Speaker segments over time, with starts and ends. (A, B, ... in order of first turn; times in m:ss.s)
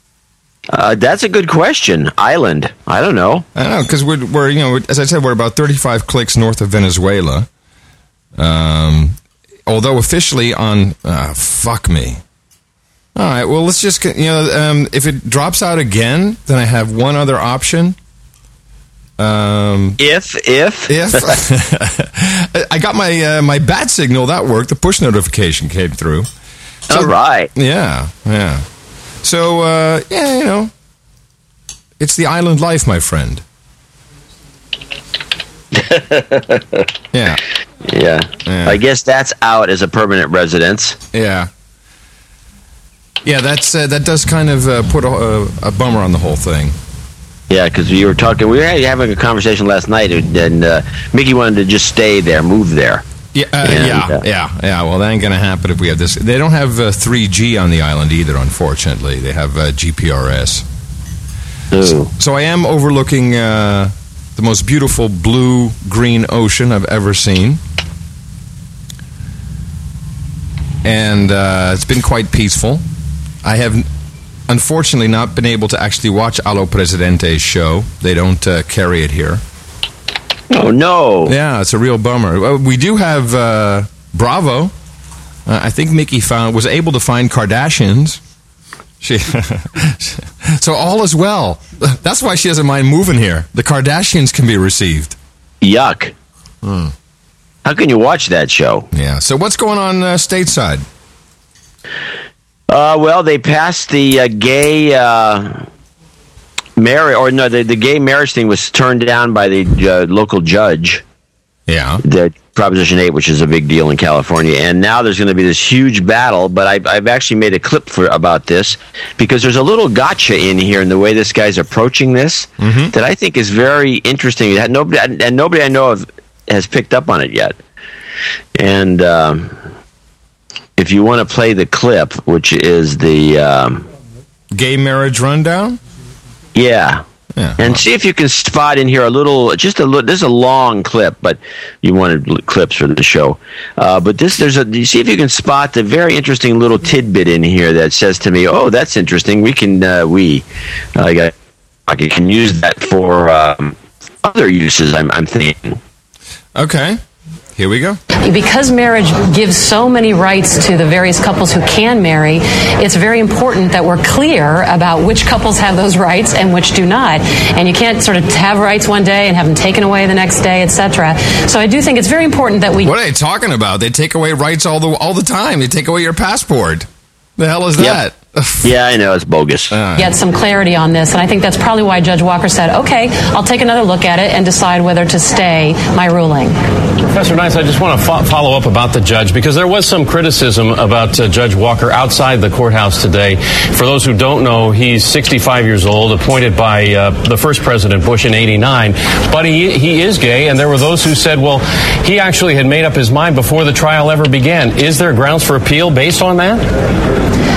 0:00.7-0:03.4 A
0:03.5-0:07.5 B
0:08.4-0:12.2 B
0:13.2-0:18.0 B
0:19.2-0:20.0 B
0:20.0-0:21.4 A
0:20.9-0:26.3 B
0:26.9-0:28.6 B
0:26.9-0:27.5 A
0:29.2-0:30.7 B
0:32.0-0:33.4 B
0:35.7-0:36.8 A
0:37.1-0:37.4 B
0:37.8-0:41.0 A
0:38.4-0:38.8 B
0:41.1-0:41.5 B
0:43.2-0:46.8 B
0:47.5-0:53.0 A
0:53.3-1:00.6 B
0:53.6-0:54.2 A
1:01.7-1:02.1 A
1:02.1-1:07.6 B
1:10.8-1:12.8 B
1:13.4-1:13.9 B
1:14.5-1:19.4 B
1:20.5-1:21.3 A
1:21.2-1:24.7 B
1:25.5-1:28.2 B
1:29.0-1:35.2 B
1:35.6-1:36.1 A
1:36.6-1:36.9 B
1:37.6-1:38.9 A
1:38.9-1:40.8 B
1:42.7-1:45.6 A
1:46.8-1:51.0 A
1:51.7-1:52.0 B
1:52.0-2:07.6 A
2:02.6-2:02.9 B
2:08.6-2:09.6 A
2:10.8-2:13.9 A
2:14.5-2:15.8 B
2:16.6-2:17.0 A
2:17.3-2:17.8 B
2:17.6-2:30.4 A
2:31.0-2:31.3 A
2:31.9-2:35.8 A
2:36.6-2:37.0 B
2:37.6-2:38.0 B
2:38.2-2:52.9 C
2:52.8-2:56.9 B
2:57.4-2:58.7 B
2:58.6-2:59.7 A
2:59.7-3:00.1 B
3:00.0-3:06.6 C
3:07.1-3:26.6 D